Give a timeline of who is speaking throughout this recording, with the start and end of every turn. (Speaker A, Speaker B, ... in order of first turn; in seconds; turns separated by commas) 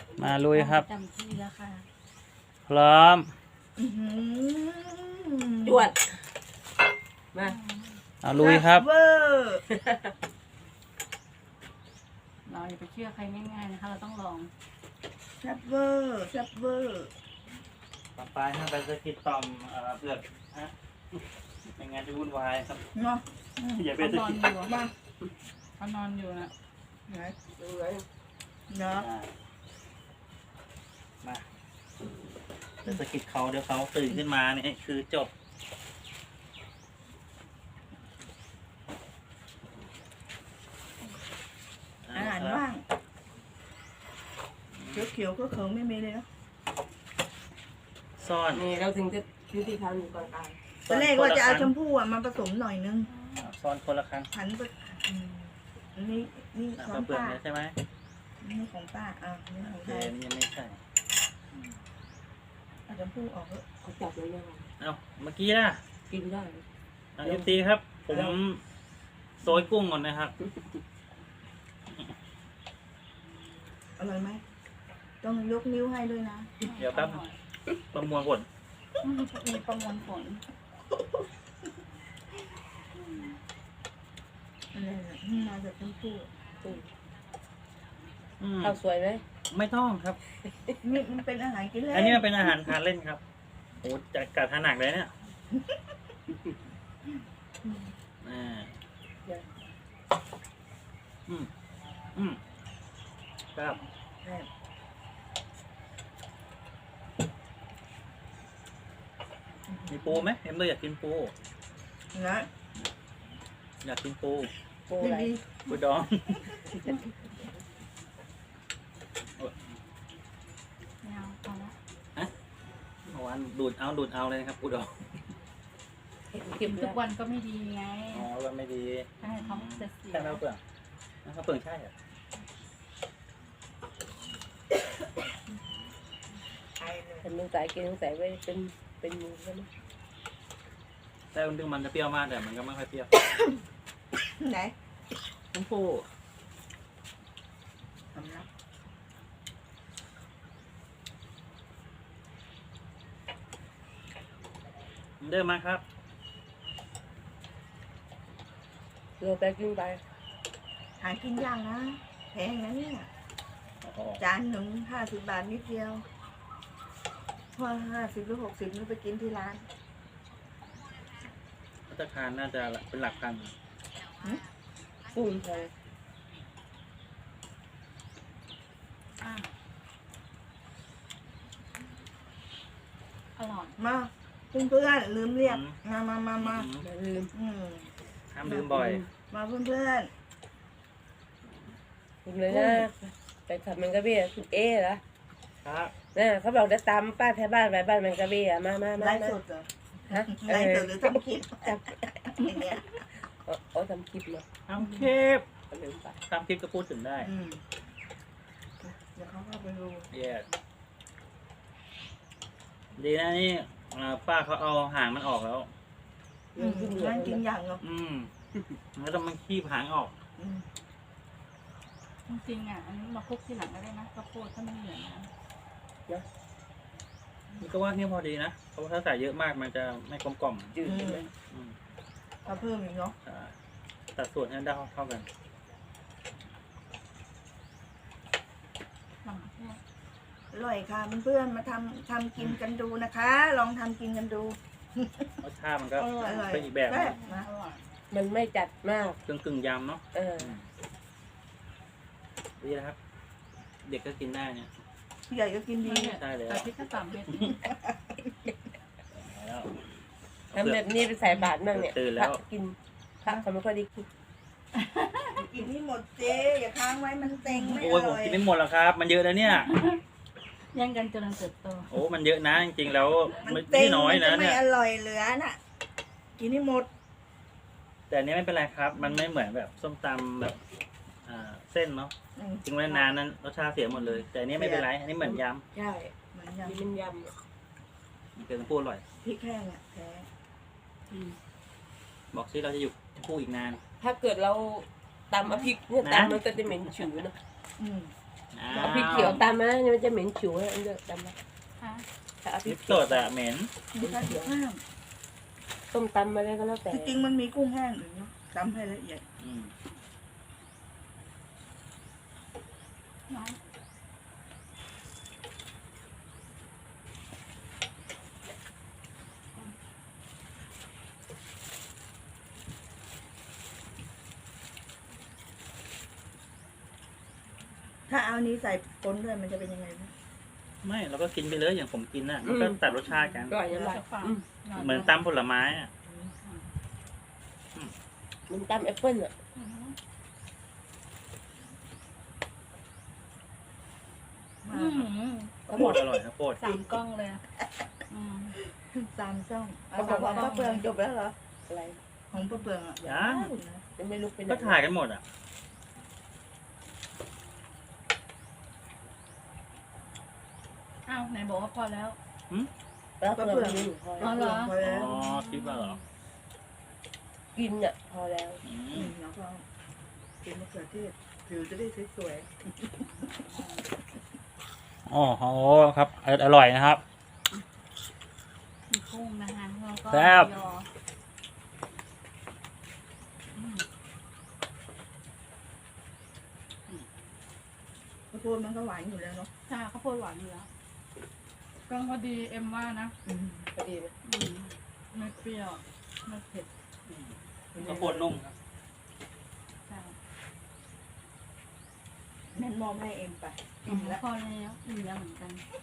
Speaker A: 0.2-0.9, Speaker B: 0.2-1.9, Speaker A: 2.7-3.3, Speaker C: 3.8-5.9, Speaker D: 5.6-6.2, Speaker A: 8.2-8.9, Speaker C: 8.3-9.6, Speaker D: 9.7-10.1, Speaker B: 12.4-14.5, Speaker C: 15.4-17.1, Speaker A: 18.1-21.2, Speaker A: 21.8-22.8, Speaker C: 22.9-23.9, Speaker A: 23.8-24.4, Speaker B: 24.0-24.8, Speaker C: 24.5-24.9, Speaker B: 25.8-26.5, Speaker C: 27.1-27.4, Speaker D: 27.6-28.0, Speaker C: 28.7-29.1, Speaker A: 29.0-29.3, Speaker A: 32.8-35.3, Speaker A: 42.0-42.6, Speaker C: 42.1-42.8, Speaker A: 44.7-45.1, Speaker C: 44.9-46.2, Speaker A: 48.2-48.6, Speaker D: 48.5-50.6, Speaker A: 50.8-51.7, Speaker C: 50.9-53.1, Speaker B: 53.0-53.5, Speaker A: 53.4-54.3, Speaker C: 54.3-57.4, Speaker A: 56.8-57.8, Speaker C: 58.4-60.1, Speaker A: 59.6-60.8, Speaker C: 62.9-63.6, Speaker D: 63.8-64.7, Speaker A: 64.8-65.8, Speaker D: 66.1-66.6, Speaker A: 67.2-68.6, Speaker D: 67.2-68.4, Speaker A: 69.4-70.3, Speaker C: 74.0-74.4, Speaker C: 75.2-76.5, Speaker B: 76.6-77.3, Speaker A: 76.8-77.2, Speaker A: 77.9-78.5, Speaker B: 79.0-80.4, Speaker C: 84.7-86.3, Speaker D: 86.6-86.9, Speaker A: 88.4-88.8, Speaker D: 88.6-89.2, Speaker A: 89.5-90.2, Speaker D: 90.4-90.8, Speaker C: 90.8-92.5, Speaker A: 91.9-93.2, Speaker A: 93.8-95.1, Speaker C: 95.5-95.9, Speaker C: 97.6-97.9, Speaker A: 98.2-98.8, Speaker A: 103.5-103.8, Speaker C: 104.2-104.5, Speaker C: 109.7-110.2, Speaker A: 109.9-111.3, Speaker C: 112.1-112.5, Speaker A: 113.8-114.5, Speaker D: 114.9-115.3, Speaker C: 115.0-115.8, Speaker A: 115.7-116.9, Speaker B: 121.0-121.7, Speaker A: 123.1-124.9, Speaker D: 126.3-127.0, Speaker B: 126.6-128.3, Speaker A: 128.1-130.6, Speaker B: 129.2-130.4, Speaker A: 131.2-131.9, Speaker C: 136.8-137.3, Speaker D: 137.2-139.7, Speaker A: 141.3-143.1, Speaker C: 143.2-143.6, Speaker C: 144.3-144.7, Speaker A: 145.5-146.1, Speaker C: 148.1-148.5, Speaker A: 155.2-155.8, Speaker D: 159.2-160.0, Speaker C: 161.0-163.1, Speaker A: 163.8-164.2, Speaker C: 164.2-166.0, Speaker C: 167.5-169.7, Speaker A: 171.9-173.5, Speaker D: 175.1-175.7, Speaker B: 179.2-179.5, Speaker B: 183.3-183.7, Speaker C: 183.8-186.7, Speaker A: 185.4-185.8, Speaker A: 186.4-186.9, Speaker D: 186.8-187.3, Speaker C: 187.3-187.9, Speaker A: 188.3-189.0, Speaker C: 188.4-190.1, Speaker D: 192.2-195.0, Speaker C: 192.5-192.9, Speaker A: 195.6-195.9, Speaker D: 196.0-199.4, Speaker C: 199.0-203.0, Speaker D: 200.1-202.1, Speaker D: 203.3-204.5, Speaker A: 204.7-205.4, Speaker D: 205.7-206.2, Speaker A: 206.3-207.3, Speaker C: 207.2-207.6, Speaker C: 208.8-210.1, Speaker A: 210.1-210.5, Speaker A: 213.0-215.7, Speaker D: 216.5-217.4, Speaker C: 216.6-217.8, Speaker A: 217.8-218.3, Speaker A: 218.9-220.1, Speaker C: 220.4-220.7, Speaker B: 222.3-225.3, Speaker A: 227.6-230.8, Speaker D: 230.7-231.3, Speaker C: 230.8-231.3, Speaker C: 232.4-233.2, Speaker A: 233.2-233.5, Speaker A: 234.1-235.3, Speaker C: 239.2-239.8, Speaker C: 240.5-245.4, Speaker A: 245.4-247.2, Speaker B: 246.0-247.8, Speaker C: 246.0-247.5, Speaker D: 248.1-249.2, Speaker A: 249.2-250.6, Speaker D: 250.1-250.6, Speaker A: 252.6-252.9, Speaker A: 253.8-254.7, Speaker C: 255.3-256.2, Speaker B: 255.8-257.6, Speaker A: 256.1-256.7, Speaker C: 257.4-258.5, Speaker A: 259.1-259.7, Speaker A: 260.5-262.4, Speaker D: 260.5-264.1, Speaker B: 264.7-265.4, Speaker C: 265.4-268.4, Speaker B: 267.4-267.8, Speaker A: 267.7-269.7, Speaker B: 269.4-270.0, Speaker B: 270.7-271.9, Speaker A: 271.9-274.6, Speaker C: 273.4-275.6, Speaker C: 276.4-276.9, Speaker A: 278.1-280.6, Speaker A: 281.2-282.1, Speaker C: 282.3-282.8, Speaker A: 282.6-285.6, Speaker C: 284.5-284.9, Speaker D: 285.2-286.1, Speaker C: 286.3-286.9, Speaker D: 286.6-287.3, Speaker A: 288.4-289.0, Speaker C: 289.2-290.3, Speaker B: 291.1-291.4, Speaker A: 292.3-293.8, Speaker D: 294.0-297.3, Speaker A: 296.0-296.5, Speaker C: 297.8-298.1, Speaker A: 298.5-299.4, Speaker C: 298.7-299.4, Speaker D: 298.7-301.3, Speaker B: 301.8-302.1, Speaker D: 302.4-303.3, Speaker A: 302.6-303.7, Speaker C: 303.9-304.8, Speaker D: 304.0-304.5, Speaker D: 305.9-307.2, Speaker C: 306.9-309.2, Speaker A: 309.4-309.7, Speaker B: 313.3-313.6, Speaker C: 328.1-330.1, Speaker A: 330.8-333.6, Speaker D: 332.4-332.8, Speaker B: 333.1-335.1, Speaker D: 333.5-334.4, Speaker A: 334.8-335.9, Speaker C: 336.1-336.3, Speaker B: 336.4-336.7, Speaker D: 338.5-339.3, Speaker B: 339.5-339.9, Speaker C: 344.6-345.1, Speaker B: 344.7-346.0, Speaker A: 345.7-346.6, Speaker C: 345.7-346.0, Speaker B: 346.6-347.4, Speaker C: 346.7-346.9, Speaker B: 348.1-348.5, Speaker C: 348.8-351.3, Speaker B: 349.9-350.8, Speaker D: 350.0-350.6, Speaker D: 351.7-352.0, Speaker C: 352.3-353.8, Speaker A: 353.1-353.5, Speaker D: 354.0-354.8, Speaker A: 354.4-355.2, Speaker B: 361.1-362.2, Speaker D: 363.2-364.6, Speaker C: 363.3-365.1, Speaker B: 364.2-366.0, Speaker A: 364.7-366.0, Speaker D: 367.5-368.6, Speaker A: 368.6-369.1, Speaker C: 368.9-369.6, Speaker C: 370.4-372.9, Speaker C: 373.5-373.9, Speaker A: 375.1-377.0, Speaker B: 378.9-380.9, Speaker A: 380.1-380.5, Speaker B: 383.5-383.8, Speaker C: 388.3-389.5, Speaker B: 389.7-390.7, Speaker B: 391.9-393.1, Speaker C: 393.2-393.7, Speaker D: 393.7-394.1, Speaker B: 394.2-396.7, Speaker A: 397.1-398.5, Speaker C: 397.7-398.3, Speaker B: 399.9-400.1, Speaker C: 402.5-404.2, Speaker B: 403.8-405.6